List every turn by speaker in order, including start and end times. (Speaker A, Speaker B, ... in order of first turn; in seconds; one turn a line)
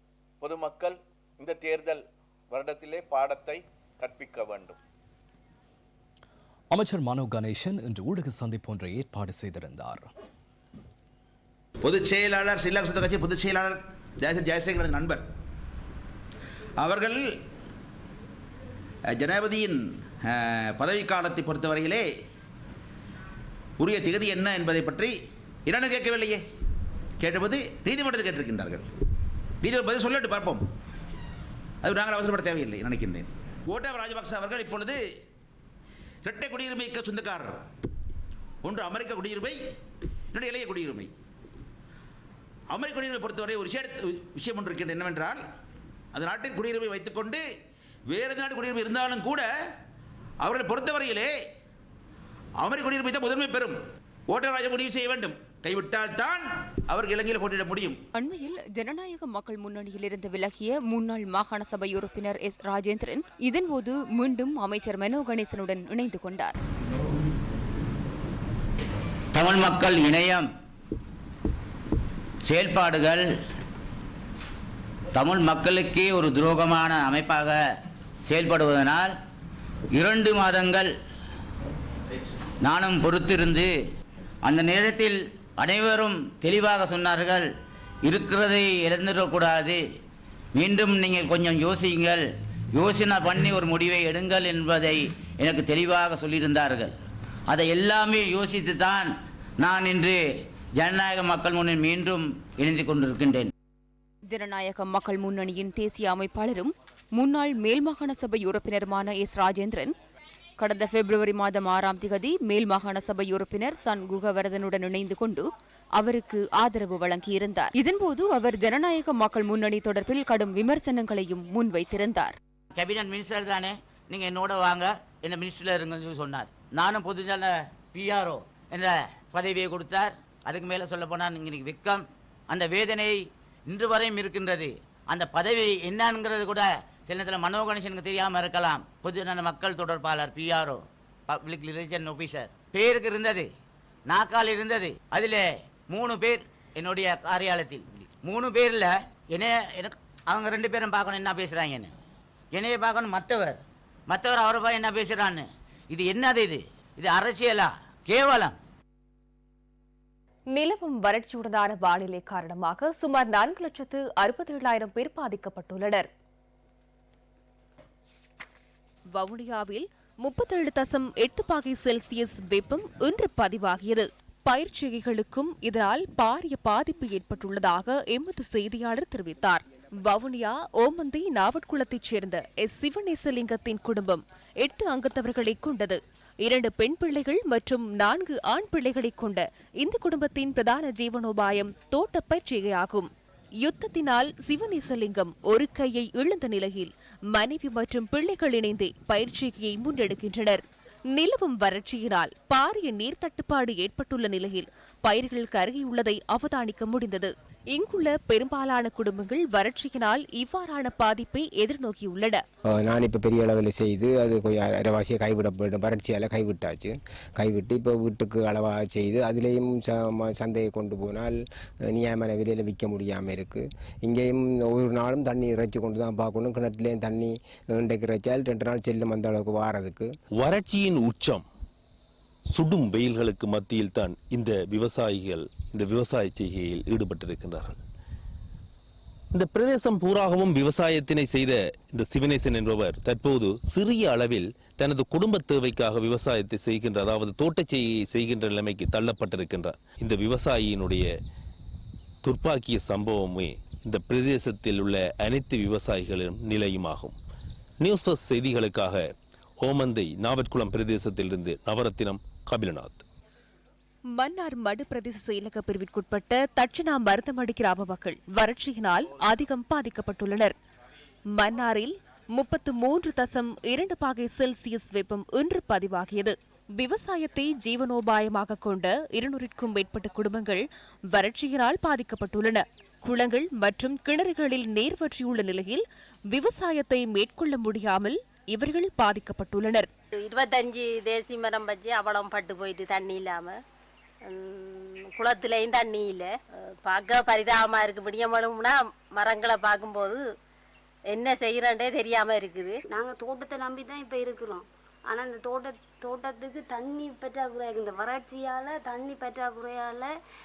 Speaker A: 0.4-4.8
Speaker B: 6.7-10.1
Speaker C: 11.8-15.2
Speaker C: 16.8-17.4
Speaker C: 19.1-22.1
Speaker C: 23.8-25.1
Speaker C: 25.7-26.4
Speaker C: 27.2-28.9
Speaker C: 29.6-30.6
Speaker C: 31.8-35.0
Speaker C: 36.2-37.6
Speaker C: 38.6-39.6
Speaker C: 40.3-41.1
Speaker C: 42.7-45.4
Speaker C: 46.1-47.4
Speaker C: 48.1-49.5
Speaker C: 50.4-51.3
Speaker C: 52.6-53.8
Speaker C: 54.3-58.0
Speaker D: 58.1-66.6
Speaker E: 69.3-70.5
Speaker E: 72.5-73.3
Speaker E: 75.2-77.6
Speaker E: 78.3-79.1
Speaker E: 80.0-80.9
Speaker E: 82.6-83.7
Speaker E: 84.4-87.5
Speaker E: 88.0-89.8
Speaker E: 90.6-96.9
Speaker E: 97.5-100.2
Speaker E: 100.8-103.5
Speaker D: 104.3-110.0
Speaker D: 110.6-122.4
Speaker E: 122.8-143.5
Speaker E: 144.1-151.9
Speaker E: 152.6-153.6
Speaker E: 154.1-158.6
Speaker F: 160.5-166.1
Speaker F: 169.1-193.1
Speaker F: 193.6-212.4
Speaker G: 212.8-221.4
Speaker G: 221.9-230.1
Speaker H: 230.3-231.5
Speaker H: 232.5-237.8
Speaker H: 239.3-251.1
Speaker H: 252.2-257.2
Speaker H: 257.8-259.1
Speaker H: 259.6-263.0
Speaker F: 264.2-270.6
Speaker F: 271.4-289.9
Speaker I: 290.1-293.6
Speaker I: 294.2-296.3
Speaker I: 296.9-300.2
Speaker I: 301.1-302.8
Speaker J: 302.9-310.1